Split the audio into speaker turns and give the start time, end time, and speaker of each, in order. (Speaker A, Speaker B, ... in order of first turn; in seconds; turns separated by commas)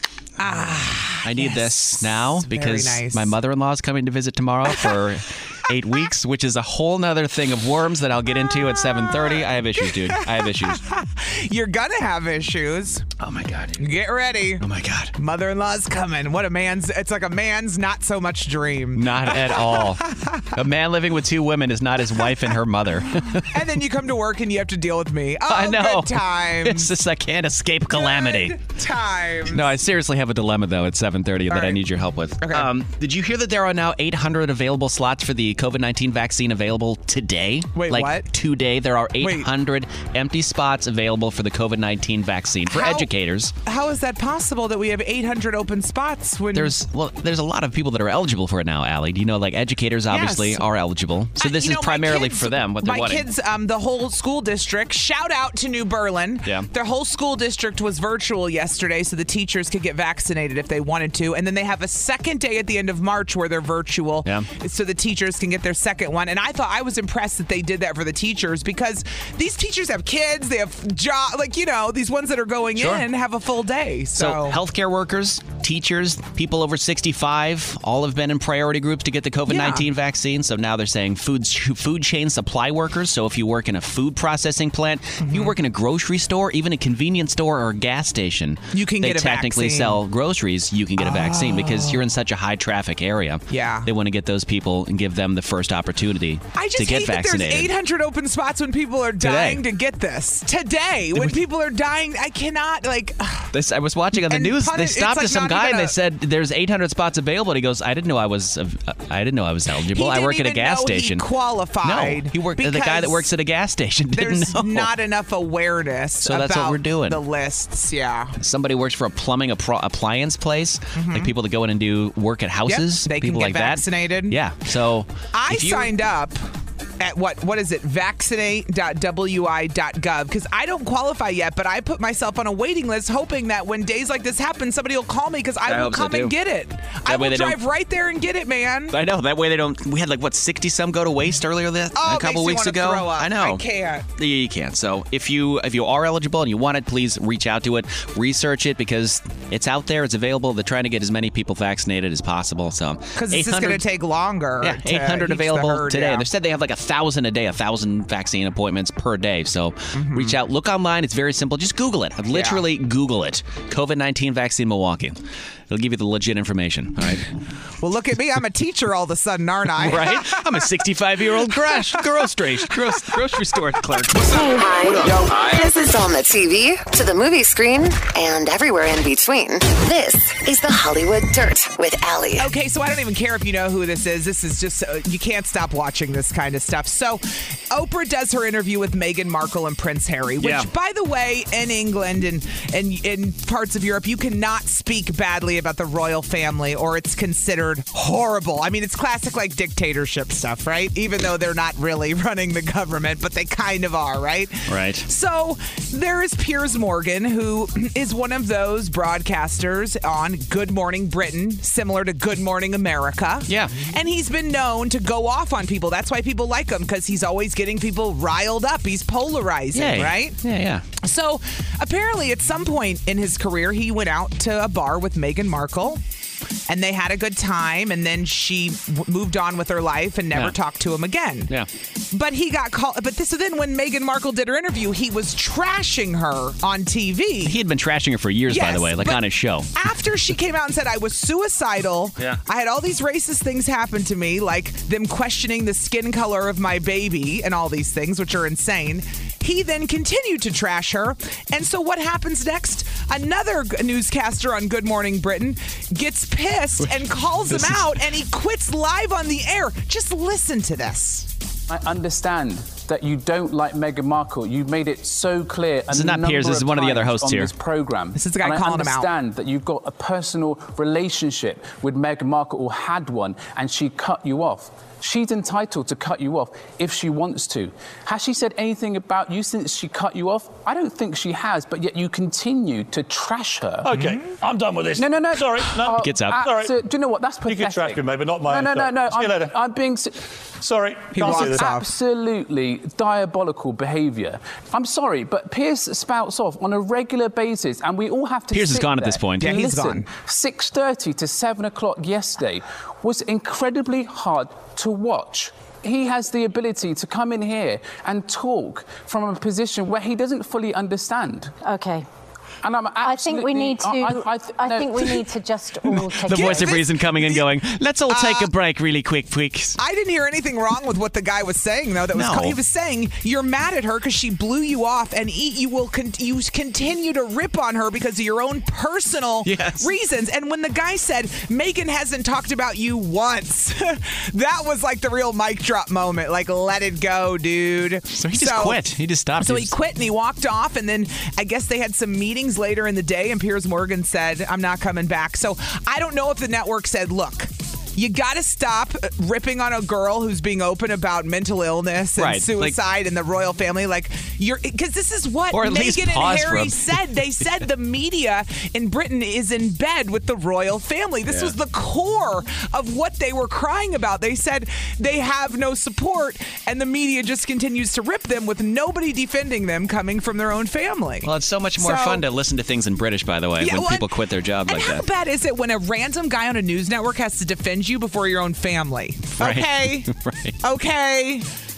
Speaker A: 0.4-3.3, Speaker B: 1.2-10.8, Speaker A: 8.5-13.1, Speaker B: 13.2-14.0, Speaker A: 13.8-14.6, Speaker B: 14.6-15.1, Speaker A: 15.2-20.5, Speaker B: 18.9-23.6, Speaker A: 23.5-26.9, Speaker B: 25.5-28.6, Speaker A: 27.9-29.7, Speaker B: 29.5-43.5, Speaker A: 31.5-31.8, Speaker A: 32.4-32.7, Speaker A: 37.8-38.3, Speaker A: 39.2-39.5, Speaker A: 42.7-43.1, Speaker A: 43.6-46.7, Speaker B: 46.5-53.3, Speaker A: 50.1-50.7, Speaker A: 51.4-74.6, Speaker B: 72.8-73.1, Speaker B: 74.2-97.7, Speaker A: 79.5-79.9, Speaker A: 85.2-85.5, Speaker A: 88.7-90.0, Speaker A: 91.0-92.0, Speaker A: 93.5-93.9, Speaker A: 96.5-103.5, Speaker B: 99.2-99.7, Speaker B: 103.5-111.3, Speaker A: 104.2-106.0, Speaker A: 109.9-113.3, Speaker B: 111.8-114.9, Speaker A: 114.1-118.4, Speaker B: 116.2-117.2, Speaker B: 118.4-125.9, Speaker A: 121.0-121.3, Speaker A: 122.7-124.4, Speaker A: 125.3-126.4, Speaker A: 127.0-139.0, Speaker B: 135.7-136.3, Speaker B: 137.1-137.6, Speaker B: 138.9-143.6, Speaker A: 141.9-144.1, Speaker B: 144.2-153.9, Speaker A: 153.2-156.3, Speaker B: 154.6-167.3, Speaker A: 159.9-160.4, Speaker A: 162.3-162.6, Speaker A: 167.8-170.4, Speaker B: 169.8-174.3, Speaker A: 171.7-172.0, Speaker C: 174.3-182.5, Speaker A: 182.4-220.4, Speaker B: 190.4-190.7, Speaker B: 204.7-205.1, Speaker B: 213.5-213.8, Speaker B: 219.7-220.8, Speaker A: 221.0-226.0, Speaker A: 226.7-231.5, Speaker A: 232.1-237.5, Speaker B: 237.4-239.7, Speaker A: 238.5-261.3, Speaker B: 257.5-257.9, Speaker D: 261.7-284.0, Speaker B: 265.9-267.5, Speaker A: 268.1-269.1, Speaker E: 283.8-286.8, Speaker A: 283.9-284.2, Speaker D: 285.0-290.1, Speaker B: 286.0-286.4, Speaker E: 287.4-289.6, Speaker E: 290.6-291.8, Speaker A: 291.1-291.9, Speaker D: 291.2-311.6, Speaker B: 298.5-299.6, Speaker A: 299.4-300.1, Speaker F: 311.6-312.1, Speaker D: 312.6-315.2, Speaker F: 313.0-316.7, Speaker B: 316.3-319.8, Speaker A: 316.3-317.5, Speaker A: 318.1-318.5, Speaker A: 319.8-338.8, Speaker B: 322.1-322.6, Speaker B: 329.4-329.9, Speaker B: 338.1-339.7, Speaker A: 339.4-372.2, Speaker B: 352.2-352.8, Speaker B: 355.5-357.0, Speaker B: 361.3-361.5, Speaker B: 371.2-375.1, Speaker A: 373.6-374.1, Speaker A: 374.7-380.1, Speaker B: 379.4-380.6, Speaker A: 380.6-381.5